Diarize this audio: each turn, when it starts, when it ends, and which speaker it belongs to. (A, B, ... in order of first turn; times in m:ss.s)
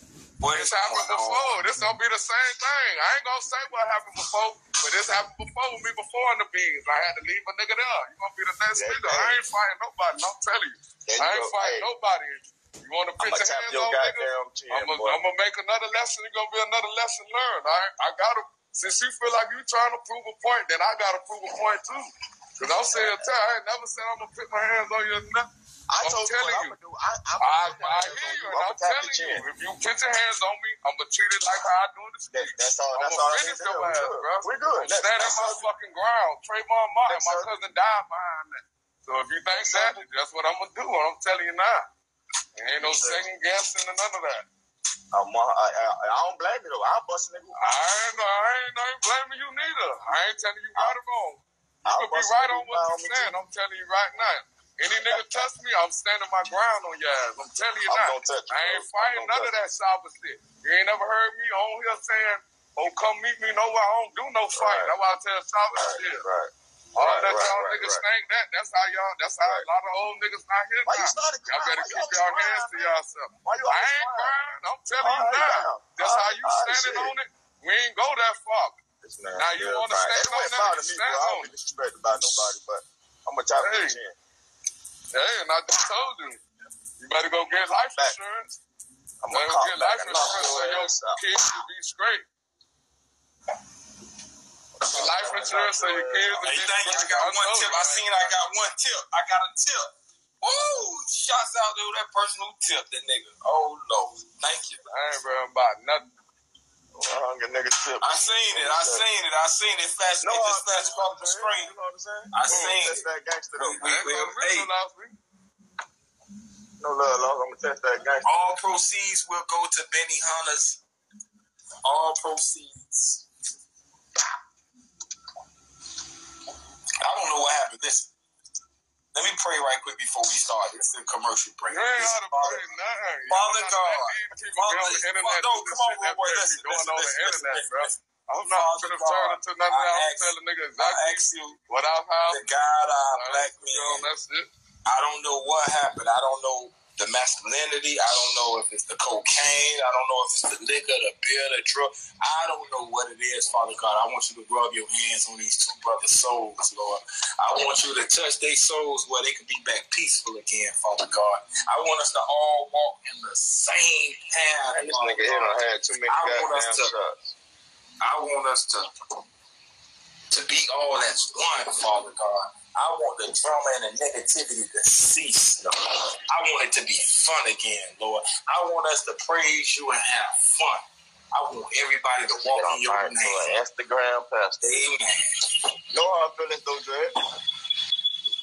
0:00.4-0:01.5 A
0:00.5-0:25.5 B
0:08.7-0:09.4 C
0:11.1-0:11.9 C
0:13.2-0:15.2 C
0:22.9-0:23.3 C
0:25.9-0:29.5 C
0:26.0-0:26.8 B
0:27.4-0:41.9 B
0:32.3-0:35.7 C
0:37.1-0:37.6 C
0:39.5-0:40.0 C
0:42.6-0:44.5 B
0:42.8-0:43.3 C
0:45.1-0:47.9 C
0:47.6-1:06.2 B
0:51.8-0:53.4 C
0:55.0-0:55.5 C
0:57.8-0:59.6 C
1:04.5-1:05.0 C
1:05.7-1:08.0 C
1:07.0-1:18.8 B
1:10.9-1:14.4 C
1:15.0-1:17.2 C
1:19.0-1:24.2 C
1:19.4-1:21.5 B
1:23.6-1:24.0 B
1:25.1-1:26.4 B
1:27.0-1:28.6 B
1:27.6-1:28.2 C
1:29.2-1:31.3 C
1:29.3-1:32.3 B
1:34.8-1:36.5 C
1:34.9-1:38.3 B
1:36.4-1:44.8 A
1:44.9-1:46.0 B
1:47.0-1:49.1 C
1:48.0-1:51.7 A
1:50.2-1:53.9 C
1:52.3-1:54.7 A
1:52.5-1:52.8 B
1:53.8-1:55.2 B
1:56.8-1:58.6 C
1:58.2-2:00.8 A
2:01.8-2:03.2 A
2:07.0-2:08.1 A
2:09.1-2:12.6 A
2:11.7-2:22.5 B
2:13.3-2:21.6 A
2:22.3-2:24.1 A
2:23.1-2:24.5 B
2:24.8-2:46.9 A
2:44.7-2:47.4 C
2:48.0-2:48.9 A
2:50.3-3:03.6 A
3:02.3-3:04.7 C
3:04.6-3:05.3 A
3:05.9-3:07.2 C